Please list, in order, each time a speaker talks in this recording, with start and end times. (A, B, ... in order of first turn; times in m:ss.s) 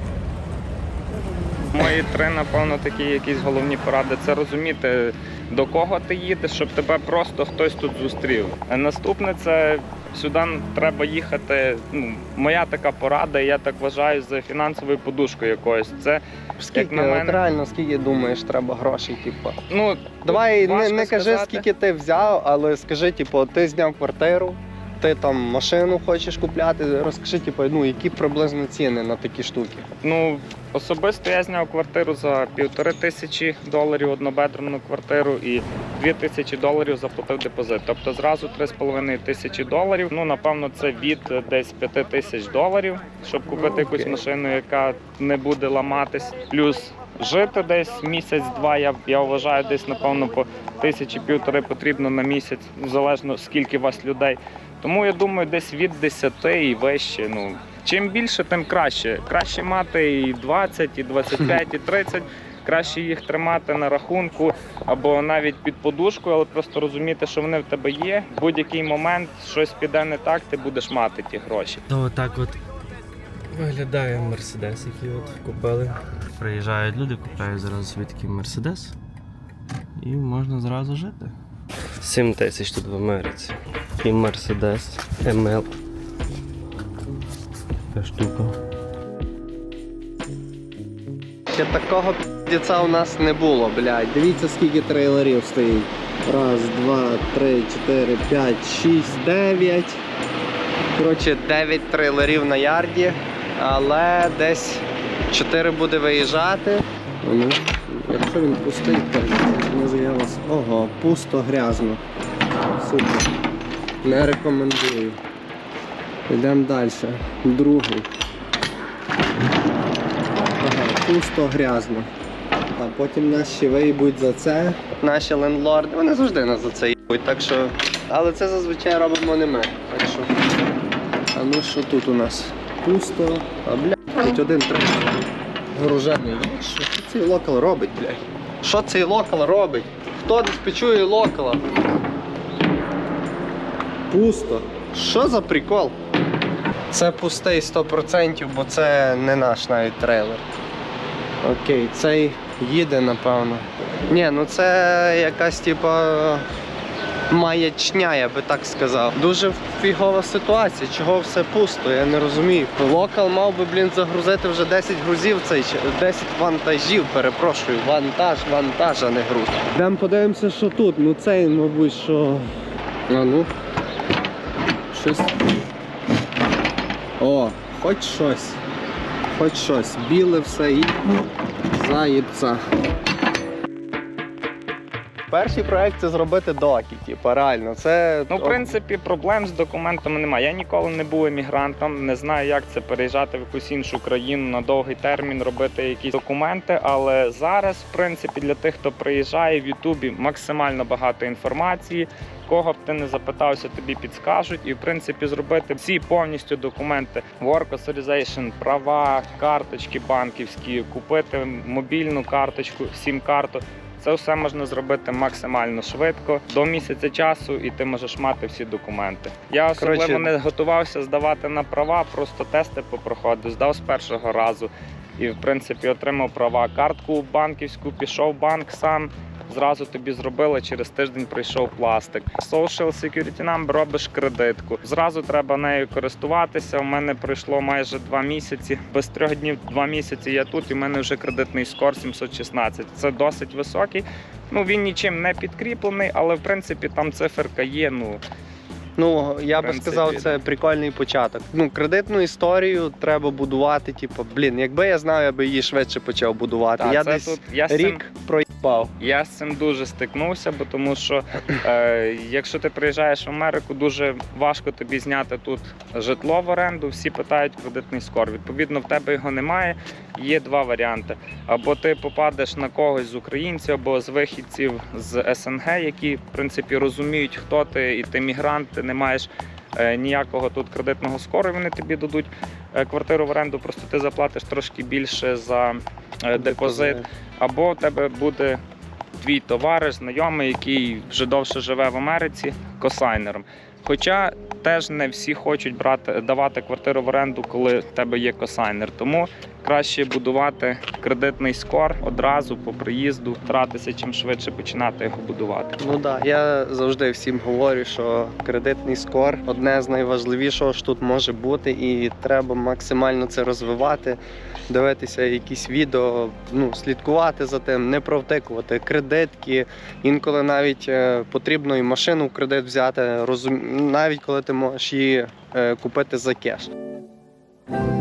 0:01.7-0:16.2 A
0:16.6-0:19.6 B
0:16.7-0:17.4 A
0:19.7-0:21.6 A
0:20.2-0:29.9 B
0:30.0-1:11.8 A
0:43.6-0:44.1 B
1:11.9-1:12.6 C
1:13.5-1:19.0 C
1:20.0-1:21.4 C
1:22.0-1:25.7 C
1:27.9-1:28.6 C
1:31.5-1:40.0 B
1:41.0-1:52.0 B
1:52.8-1:53.3 B
1:54.0-1:55.2 B
1:56.3-1:58.1 B
2:00.6-2:02.1 B
2:02.8-2:10.3 B
2:11.3-2:15.1 B
2:15.7-2:21.6 B
2:24.1-2:26.0 B
2:26.9-2:30.4 B
2:31.4-2:36.5 B
2:37.3-2:52.5 B
2:53.1-2:53.5 B
2:54.9-2:55.4 B
2:57.2-2:58.6 B
2:59.3-3:02.7 B
3:05.3-3:08.8 B
3:08.3-4:08.2 A
3:39.8-3:40.3 B
4:09.0-4:18.9 B
4:09.6-4:10.4 A
4:16.8-4:18.0 A
4:19.0-4:48.6 A
4:46.4-4:47.1 B
4:49.2-5:06.0 A
5:05.8-5:26.7 B